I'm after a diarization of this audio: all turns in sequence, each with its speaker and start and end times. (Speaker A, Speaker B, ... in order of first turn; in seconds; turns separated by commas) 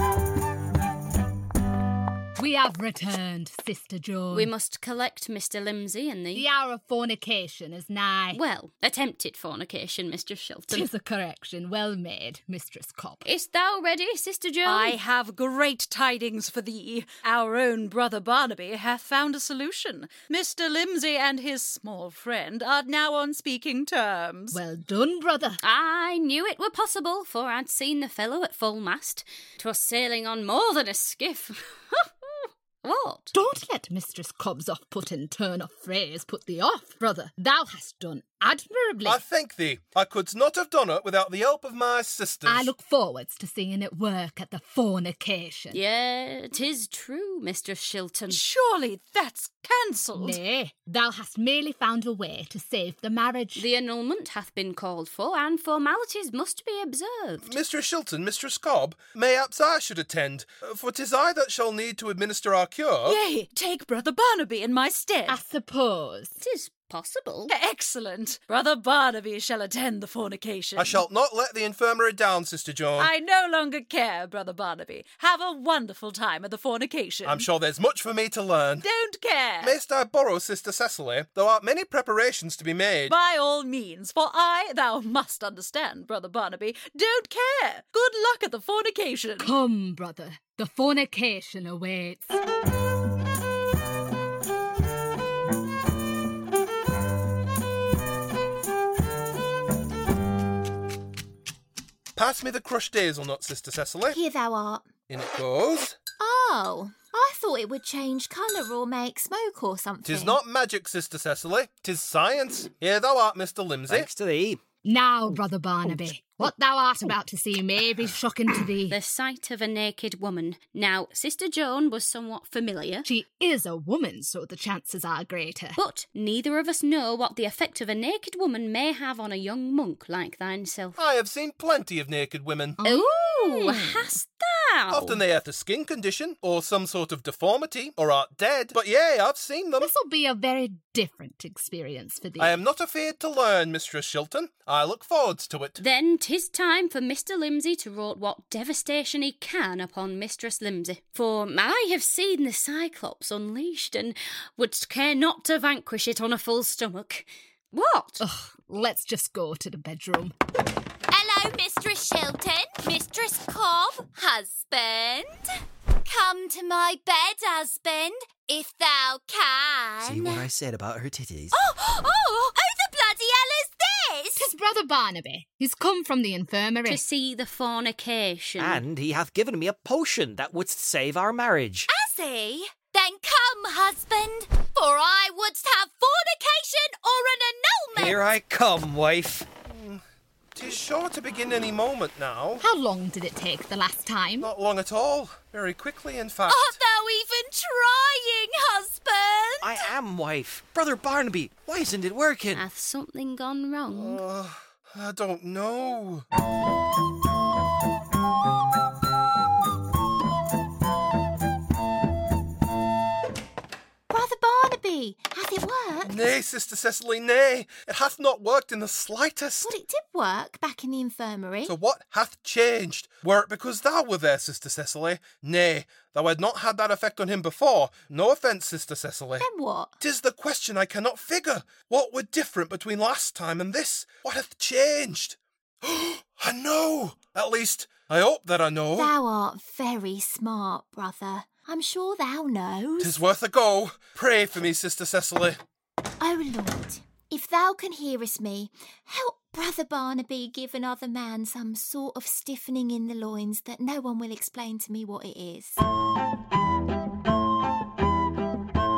Speaker A: 2.4-4.5, Speaker B: 4.3-6.5, Speaker A: 6.3-8.4, Speaker B: 8.3-10.9, Speaker A: 10.7-13.2, Speaker B: 13.2-15.0, Speaker C: 14.7-24.6, Speaker A: 24.5-25.6, Speaker B: 25.6-33.3, Speaker A: 33.3-39.2, Speaker D: 39.0-42.7, Speaker A: 42.5-45.8, Speaker B: 45.7-48.4, Speaker C: 48.3-50.4, Speaker A: 50.1-53.6, Speaker B: 53.5-57.6, Speaker D: 57.4-63.2, Speaker C: 63.0-65.4, Speaker A: 65.3-66.3, Speaker B: 66.4-67.5, Speaker C: 67.5-71.0, Speaker D: 70.8-73.1, Speaker C: 73.0-77.5, Speaker D: 77.2-78.8, Speaker C: 78.8-79.8, Speaker D: 79.6-83.2, Speaker C: 83.1-89.5, Speaker A: 89.4-92.4, Speaker D: 102.2-104.2, Speaker E: 104.1-104.9, Speaker D: 105.1-106.0, Speaker E: 106.2-110.4, Speaker D: 110.0-114.1, Speaker F: 113.9-114.6, Speaker A: 114.8-119.0, Speaker B: 118.9-123.1, Speaker A: 123.0-125.8, Speaker B: 125.8-131.0, Speaker D: 131.0-132.8, Speaker A: 132.8-134.1, Speaker B: 132.8-135.2, Speaker D: 134.9-139.9, Speaker A: 139.8-142.6, Speaker D: 142.4-145.8, Speaker B: 145.8-158.2, Speaker A: 158.2-160.3, Speaker G: 161.1-165.5, Speaker G: 166.1-170.5, Speaker F: 170.0-171.6, Speaker G: 171.5-174.5, Speaker A: 174.4-177.0, Speaker B: 176.9-178.8, Speaker F: 178.6-181.9, Speaker G: 181.9-188.2, Speaker F: 187.9-189.5, Speaker D: 189.7-190.0, Speaker D: 190.6-192.6, Speaker A: 192.6-194.5, Speaker D: 194.4-196.8, Speaker G: 196.5-199.9, Speaker F: 199.6-202.7, Speaker B: 202.5-204.2, Speaker D: 203.9-206.2, Speaker E: 214.1-216.2, Speaker D: 216.0-219.7, Speaker E: 219.6-221.8, Speaker D: 221.7-229.5, Speaker E: 229.4-229.9, Speaker D: 230.0-239.1, Speaker E: 238.9-243.3, Speaker D: 243.0-245.6, Speaker E: 246.2-255.8